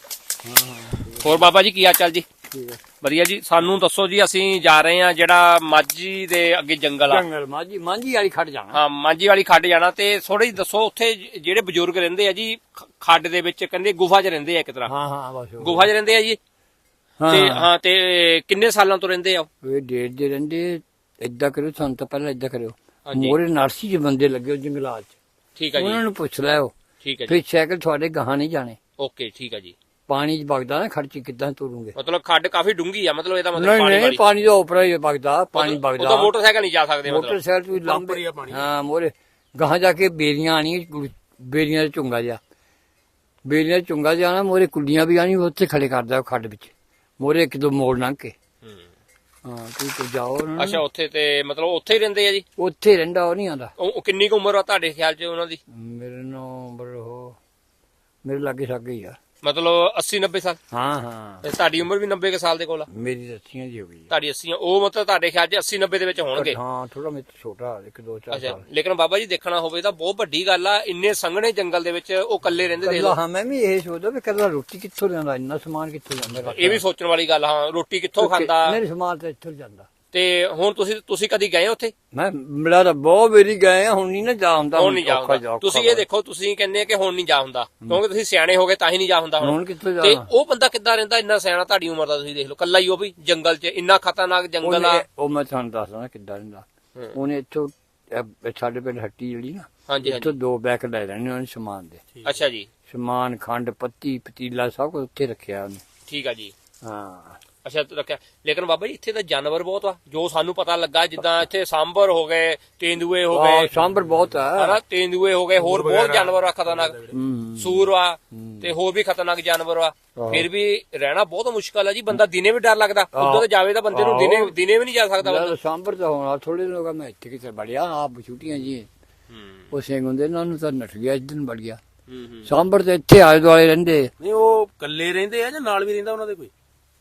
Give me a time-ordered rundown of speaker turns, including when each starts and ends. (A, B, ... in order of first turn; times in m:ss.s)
0:00.4-0:01.5 A
0:01.2-0:02.2 B
0:02.5-0:02.8 A
0:03.0-0:07.2 B
0:07.1-0:08.8 A
0:08.7-0:14.9 B
0:14.9-0:15.9 A
0:15.6-0:16.4 B
0:17.2-0:17.7 A
0:17.3-0:19.5 B
0:19.6-0:25.1 A
0:23.0-0:23.4 B
0:25.6-0:26.0 B
0:25.8-0:26.7 A
0:27.0-0:27.4 B
0:27.3-0:28.8 A
0:29.0-0:29.7 B
0:30.1-0:32.0 A
0:31.9-0:34.2 B
0:33.5-0:36.3 A
0:35.5-0:37.4 B
0:37.0-0:42.4 A
0:37.7-0:38.7 C
0:43.4-0:48.3 A
0:49.4-0:50.8 A
0:50.6-0:52.4 B
0:52.6-0:53.7 A
0:53.8-0:55.6 B
0:55.7-0:57.4 A
0:58.2-0:59.2 A
0:59.4-1:00.6 B
1:00.7-1:01.4 A
1:01.4-1:02.9 B
1:02.9-1:04.1 A
1:04.1-1:06.6 B
1:06.3-1:08.6 A
1:08.3-1:13.2 B
1:12.8-1:16.8 A
1:16.5-1:18.8 B
1:18.2-1:19.9 A
1:20.1-1:21.9 B
1:22.1-1:26.0 A
1:24.8-1:35.0 B
1:29.4-1:30.3 A
1:34.6-1:42.0 A
1:39.9-1:40.3 B
1:42.2-1:42.7 B
1:42.9-1:45.8 A
1:46.1-1:46.5 B
1:46.8-1:47.4 A
1:47.6-1:53.7 B
1:53.3-1:54.8 A
1:54.5-1:56.9 B
1:55.6-1:57.2 C
1:57.1-1:58.7 A
1:57.6-2:05.6 B
2:00.1-2:00.4 A
2:03.1-2:04.5 A
2:05.2-2:08.9 A
2:09.7-2:11.8 A
2:12.4-2:14.1 A
2:14.2-2:16.5 C